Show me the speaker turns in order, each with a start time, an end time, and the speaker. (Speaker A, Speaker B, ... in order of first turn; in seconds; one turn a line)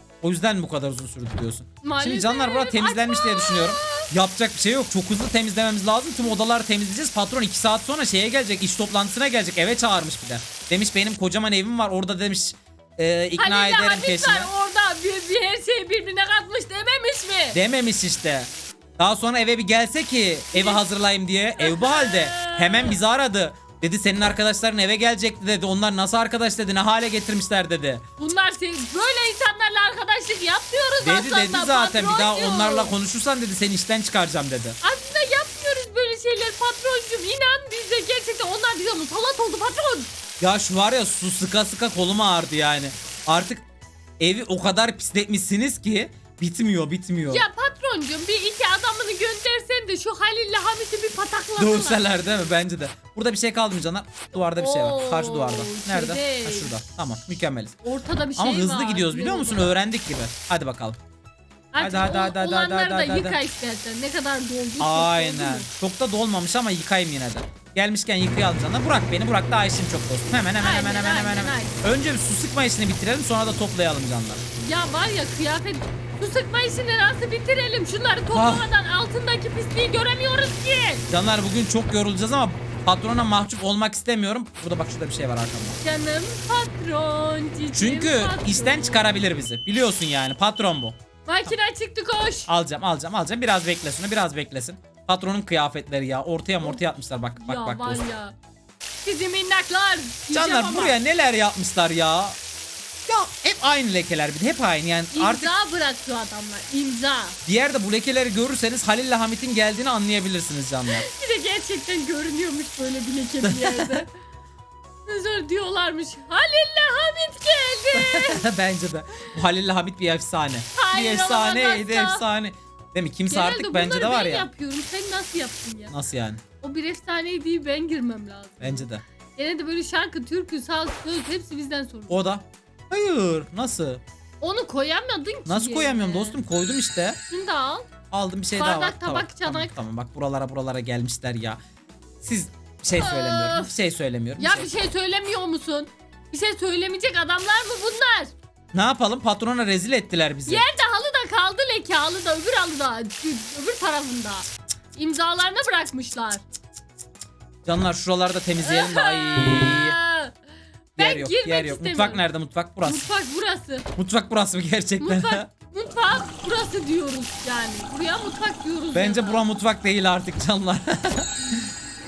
Speaker A: 0.2-14.5
Speaker B: 1.8-4.1
Speaker B: 13.4-17.6
Speaker A: 17.5-28.1
Speaker B: 20.5-20.8
Speaker B: 21.6-23.0
Speaker B: 28.2-32.9
Speaker A: 31.0-34.8
Speaker B: 34.8-40.1
Speaker A: 40.4-43.6
Speaker A: 44.2-47.5
Speaker B: 47.3-52.2
Speaker A: 51.6-57.8
Speaker B: 54.6-56.8
Speaker B: 57.8-59.8
Speaker A: 58.4-61.0
Speaker B: 61.7-65.7
Speaker A: 61.8-63.4
Speaker A: 64.8-74.5
Speaker B: 70.6-71.8
Speaker B: 74.6-81.0
Speaker A: 78.3-78.7
Speaker A: 81.1-85.8
Speaker B: 85.8-89.1
Speaker A: 87.7-91.5
Speaker B: 91.2-92.5
Speaker A: 92.5-98.0
Speaker B: 97.4-98.4
Speaker B: 99.0-101.0
Speaker A: 100.3-102.4
Speaker A: 103.1-105.5
Speaker B: 105.1-107.4
Speaker A: 107.5-111.1
Speaker B: 110.9-114.1
Speaker A: 113.4-114.0
Speaker B: 115.1-118.4
Speaker A: 117.9-124.5
Speaker B: 120.8-122.2
Speaker B: 123.3-126.0
Speaker A: 125.9-126.4
Speaker B: 126.6-132.3
Speaker A: 128.6-129.0
Speaker A: 132.1-134.0
Speaker B: 134.4-136.4
Speaker A: 135.5-137.2
Speaker B: 137.3-137.9
Speaker A: 138.1-141.6
Speaker B: 138.6-139.8
Speaker A: 142.2-144.7
Speaker B: 142.9-143.7
Speaker B: 144.4-148.3
Speaker A: 148.7-150.7
Speaker B: 150.5-156.4
Speaker A: 157.7-160.0
Speaker B: 158.6-160.4
Speaker A: 161.0-163.1
Speaker B: 161.0-162.2
Speaker B: 162.8-163.9
Speaker A: 164.0-165.5
Speaker B: 165.0-169.4
Speaker A: 168.9-171.7